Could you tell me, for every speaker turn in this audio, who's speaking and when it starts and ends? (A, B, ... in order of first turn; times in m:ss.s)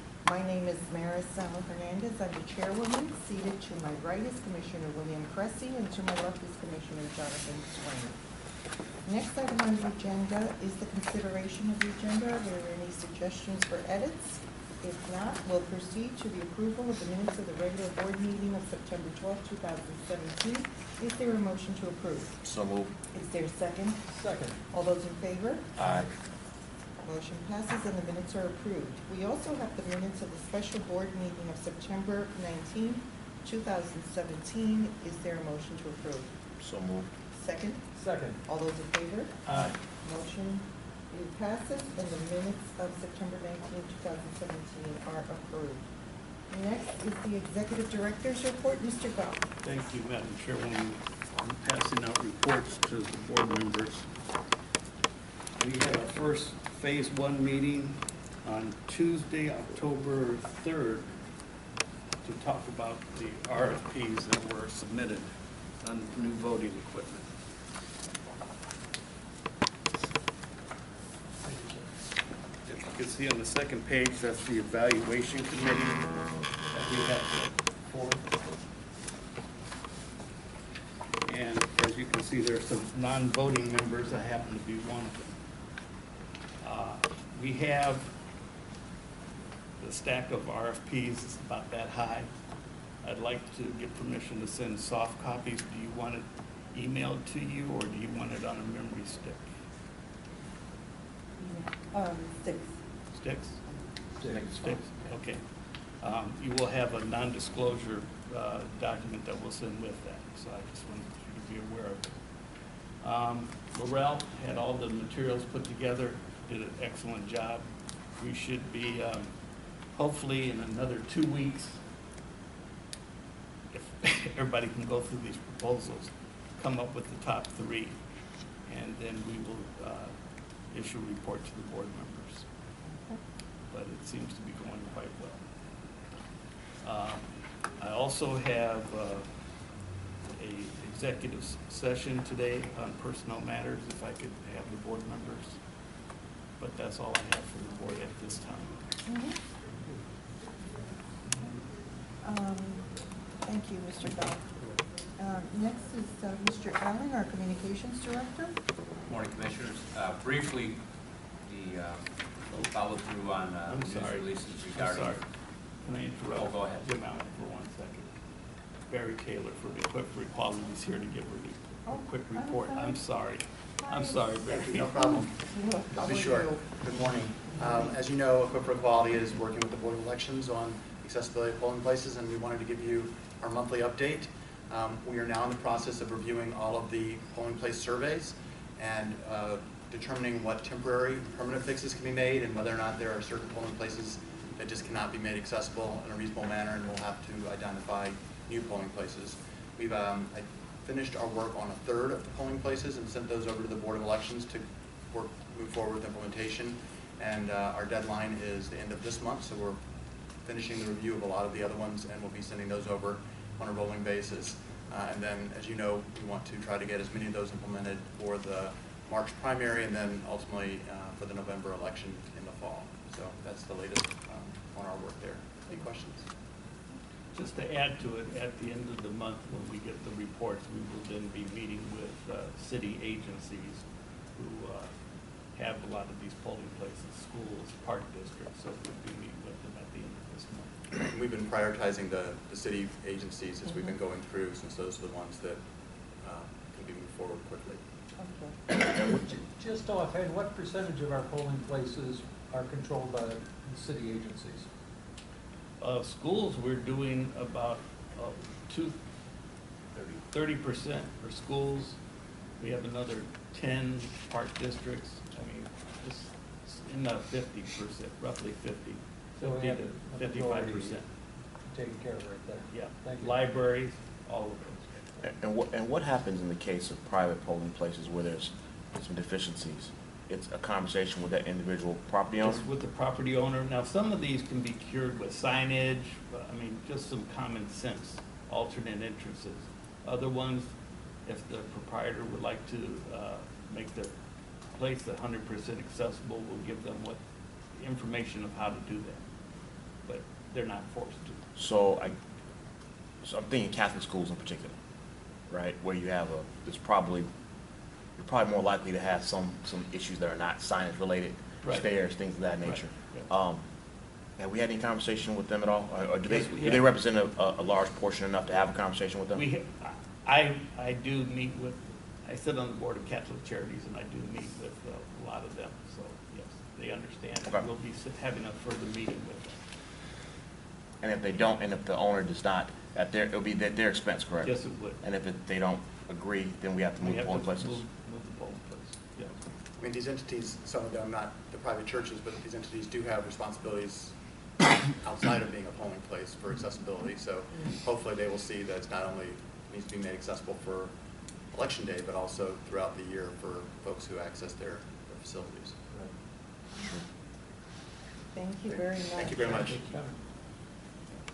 0:00.2-0:08.2 A
0:09.0-0:22.4 A
0:22.4-0:22.9 B
0:23.1-0:24.0 A
0:24.1-0:24.6 C
0:24.7-0:25.8 A
0:25.8-0:26.1 D
0:27.0-0:36.3 A
0:36.6-0:37.1 B
0:37.3-0:39.4 A
0:37.9-0:38.4 C
0:39.4-0:39.8 D
0:40.0-0:45.8 A
0:46.5-0:49.4 A
0:49.6-0:54.1 D
0:55.6-1:01.1 D
1:02.2-1:05.3 D
1:05.8-1:07.3 D
1:11.4-1:11.9 C
1:12.6-1:16.1 D
1:16.7-1:18.1 D
1:21.2-1:25.3 D
1:26.6-1:28.1 D
1:29.8-1:32.3 D
1:33.0-1:39.4 D
1:41.4-1:42.8 A
1:43.1-1:43.6 D
1:44.2-1:44.6 C
1:44.3-1:44.9 B
1:44.6-1:45.4 D
1:46.0-1:52.1 D
1:53.0-1:57.6 D
1:58.2-1:59.3 D
1:59.9-2:01.8 D
2:03.7-2:08.0 D
2:08.6-2:10.1 D
2:10.7-2:12.4 D
2:13.7-2:15.4 D
2:16.8-2:17.2 D
2:17.8-2:19.2 D
2:20.3-2:25.6 D
2:26.6-2:28.8 D
2:29.0-2:29.4 A
2:32.2-2:32.9 A
2:33.4-2:34.4 A
2:35.2-2:38.6 A
2:39.1-2:40.8 E
2:41.4-2:45.2 E
2:43.7-2:45.2 D
2:45.8-2:48.1 D
2:46.3-2:46.9 E
2:48.9-2:55.2 D
2:51.9-2:53.0 A
2:53.8-2:56.6 A
2:54.7-2:55.3 F
2:55.9-3:29.8 F
2:57.5-2:57.9 A
3:30.4-3:46.2 F
3:47.3-3:53.8 D
3:54.4-3:54.9 D
3:55.5-4:00.7 D
4:01.0-4:05.6 F
4:03.7-4:03.9 A
4:06.2-4:07.8 F
4:08.2-4:08.6 A
4:08.9-4:14.7 C
4:15.8-4:19.0 D
4:19.9-4:20.2 E
4:20.3-4:22.0 D
4:22.6-4:31.0 D
4:29.4-4:31.0 C
4:31.6-4:33.4 C
4:32.7-4:35.0 D
4:35.2-4:42.6 B
4:42.4-4:50.7 D
4:51.2-4:54.1 D
4:54.7-4:57.2 D
4:57.8-4:59.2 D
5:00.0-5:01.4 D
5:01.6-5:02.1 B
5:03.2-5:04.7 B
5:05.5-5:07.3 B
5:08.2-5:13.6 B
5:11.6-5:11.9 D
5:12.6-5:13.2 D
5:14.4-5:19.4 B
5:16.2-5:16.9 D
5:19.3-5:29.6 D
5:31.0-5:37.8 B
5:34.4-5:35.0 D
5:37.0-5:39.4 D
5:39.8-5:44.1 F
5:44.9-5:50.9 F
5:51.5-5:55.8 F
5:58.3-5:59.8 A
5:59.1-5:59.8 F
5:59.4-6:00.2 C